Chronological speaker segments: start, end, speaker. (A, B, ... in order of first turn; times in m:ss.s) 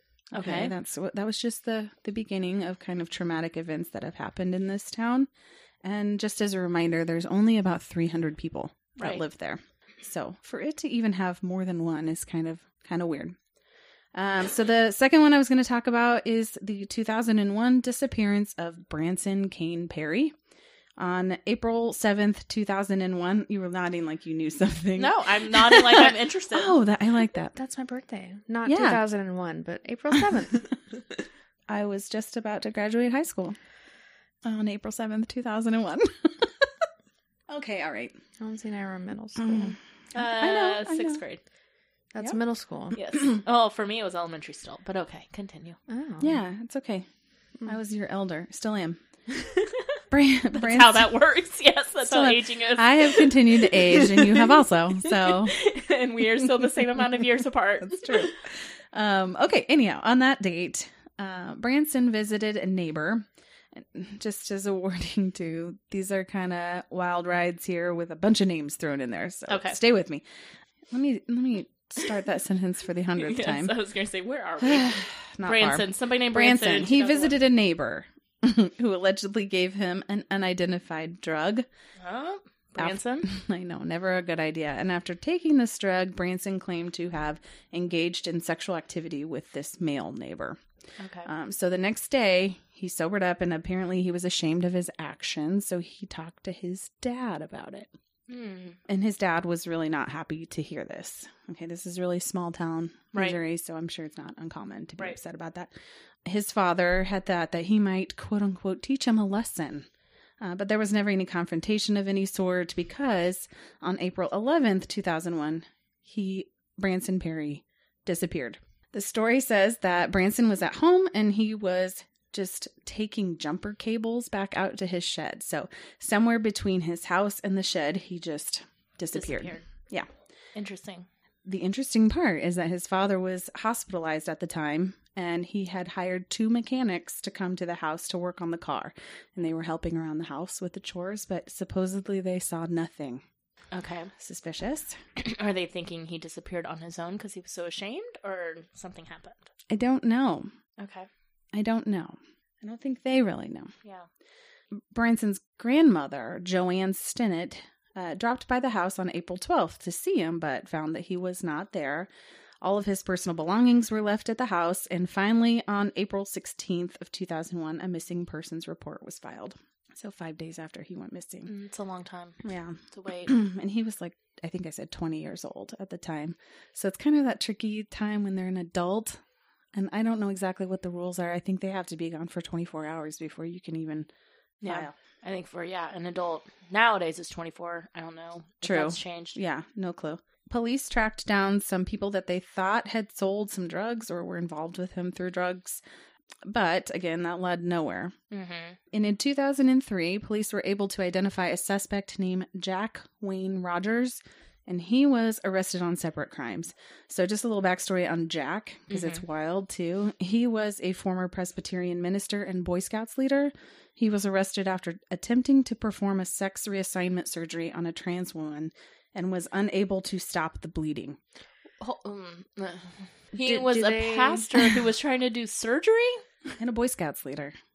0:00.3-0:00.7 A
0:00.3-0:05.3 B
0:05.8-0:13.4 B
0:14.1-0:20.3 B
0:21.0-0:27.5 B
0:25.0-0:26.7 A
0:27.5-0:30.6 C
0:28.6-0:29.0 B
0:31.7-0:33.6 B
0:34.4-0:36.7 B
0:37.5-0:38.2 B
0:38.4-0:39.8 C
0:39.4-0:41.2 B
0:40.1-0:41.4 A
0:42.1-0:43.0 C
0:42.9-0:45.8 A
0:45.9-0:46.4 C
0:46.2-0:47.0 B
0:47.6-0:49.0 B
0:49.4-0:49.8 A
0:50.1-0:51.1 B
0:50.5-0:58.3 A
0:52.0-0:55.6 B
0:57.8-0:58.3 B
0:58.9-1:10.2 B
1:09.5-1:09.8 A
1:10.9-1:13.7 B
1:13.2-1:17.4 A
1:14.6-1:21.6 B
1:22.0-1:23.3 A
1:22.8-1:30.6 B
1:31.0-1:31.3 A
1:31.2-1:37.9 B
1:38.3-1:38.8 A
1:38.9-1:45.7 B
1:43.1-1:43.4 A
1:46.2-1:49.9 B
1:50.4-2:10.1 B
2:09.1-2:09.6 A
2:10.5-2:11.1 A
2:11.4-2:23.2 B
2:23.7-2:24.1 A
2:24.2-2:25.0 B
2:25.2-2:29.5 A
2:29.7-2:30.5 B
2:30.8-2:31.1 A
2:31.5-2:33.7 B
2:34.7-2:42.1 B
2:42.6-2:51.5 B
2:51.5-2:52.4 A
2:52.4-2:59.2 B
2:52.9-2:53.3 A
2:59.7-3:04.1 B
3:04.6-3:09.4 A
3:04.6-3:04.9 B
3:08.6-3:15.8 B
3:16.4-3:18.1 B
3:18.3-3:18.8 A
3:18.9-3:41.2 B
3:28.9-3:29.2 A
3:41.8-3:46.2 A
3:43.4-3:44.5 C
3:46.6-3:47.5 B